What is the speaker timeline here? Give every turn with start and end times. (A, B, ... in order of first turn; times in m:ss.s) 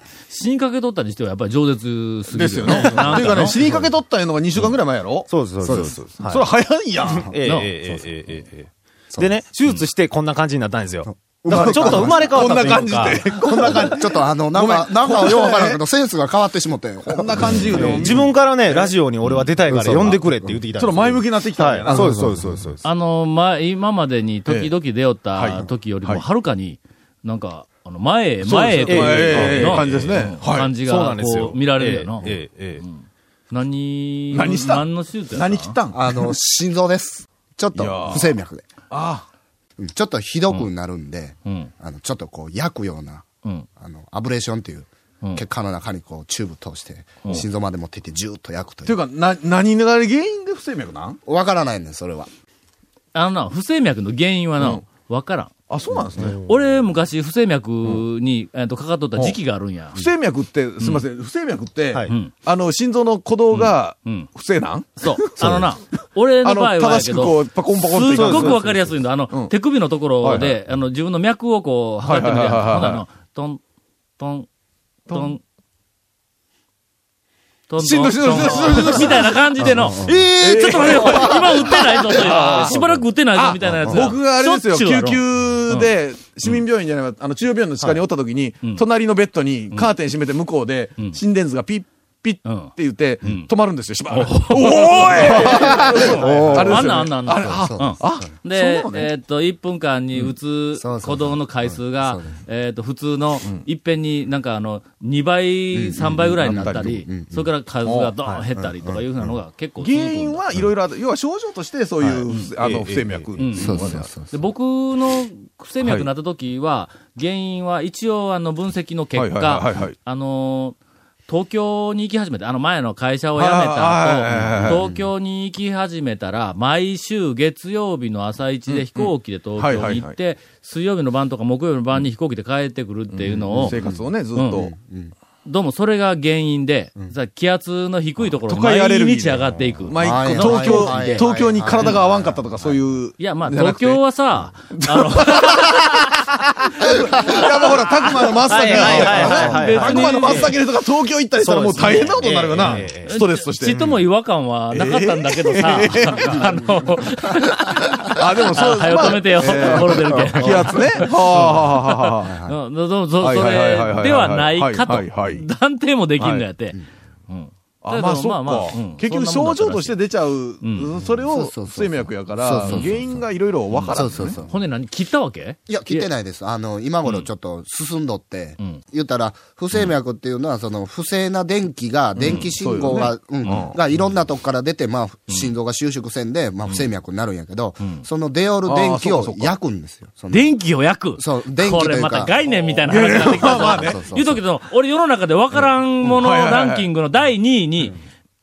0:00.3-0:03.6 A
0:02.3-0:07.3 B
0:02.9-0:03.8 C
0:05.2-0:14.1 C
0:05.6-0:05.9 D
0:07.0-0:07.4 D
0:07.4-0:07.7 A
0:11.1-0:18.2 D
0:11.5-0:15.8 B
0:17.0-0:22.7 B
0:17.4-0:22.8 C
0:22.8-0:35.7 A
0:24.5-0:24.7 B
0:25.4-0:26.2 B
0:28.4-0:30.7 B
0:28.9-0:30.2 C
0:30.8-0:32.8 C
0:34.3-0:36.3 B
0:35.9-0:38.6 D
0:37.7-0:38.3 B
0:38.9-0:39.2 B
0:39.8-0:43.2 D
0:41.4-0:41.7 A
0:43.8-0:49.0 D
0:48.8-0:51.2 B
0:51.2-0:52.3 D
0:53.1-0:55.5 A
0:54.6-0:54.8 B
0:55.7-0:56.4 B
0:56.1-0:56.6 C
0:56.4-1:00.0 A
0:59.9-1:05.7 B
1:03.5-1:04.3 A
1:05.0-1:13.6 A
1:06.4-1:08.7 B
1:08.1-1:08.9 C
1:10.2-1:10.5 B
1:12.0-1:13.0 B
1:14.2-1:14.5 A
1:15.1-1:15.3 B
1:15.1-1:15.4 A
1:17.7-1:25.9 A
1:17.8-1:19.4 B
1:19.6-1:20.3 D
1:20.1-1:39.1 B
1:23.7-1:24.1 D
1:32.4-1:32.7 A
1:33.2-1:33.5 A
1:34.1-1:50.4 A
1:35.4-1:38.2 D
1:40.8-1:42.4 D
1:45.7-1:47.5 D
1:46.4-1:47.0 B
1:47.8-1:48.1 B
1:48.5-1:49.3 D
1:49.8-1:54.1 B
1:52.0-1:53.3 C
1:53.4-1:53.8 A
1:53.6-1:54.3 D
1:54.3-2:00.8 A
1:55.8-1:56.1 B
1:59.1-1:59.9 B
2:01.3-2:13.8 A
2:03.4-2:04.8 B
2:04.6-2:05.0 D
2:08.7-2:10.1 B
2:13.2-2:14.7 B
2:13.5-2:15.1 D
2:14.3-2:14.7 A
2:15.4-2:22.0 A
2:18.5-2:24.0 B
2:20.0-2:22.4 D
2:23.2-2:25.9 A
2:24.7-2:26.0 B
2:26.8-2:34.0 B
2:27.2-2:27.9 A
2:28.4-2:30.6 C
2:28.5-2:30.5 A
2:31.4-2:33.1 C
2:31.8-2:50.0 A
2:34.7-2:36.5 B
2:37.3-2:38.1 D
2:38.0-2:42.3 B
2:39.7-2:41.6 D
2:42.2-2:42.6 D
2:43.2-2:45.4 B
2:46.2-2:46.4 B
2:47.8-2:54.4 B
2:50.6-2:50.9 A
2:51.2-2:53.2 D
2:52.6-2:52.9 A
2:53.7-2:56.1 A
2:53.9-2:54.5 D
2:55.7-3:10.5 D
3:02.2-3:03.8 B
3:02.2-3:02.5 A
3:03.4-3:03.7 A
3:08.6-3:09.6 B
3:10.3-3:18.0 A
3:11.2-3:12.4 D
3:12.5-3:14.0 B
3:13.2-3:14.4 D
3:16.0-3:16.9 B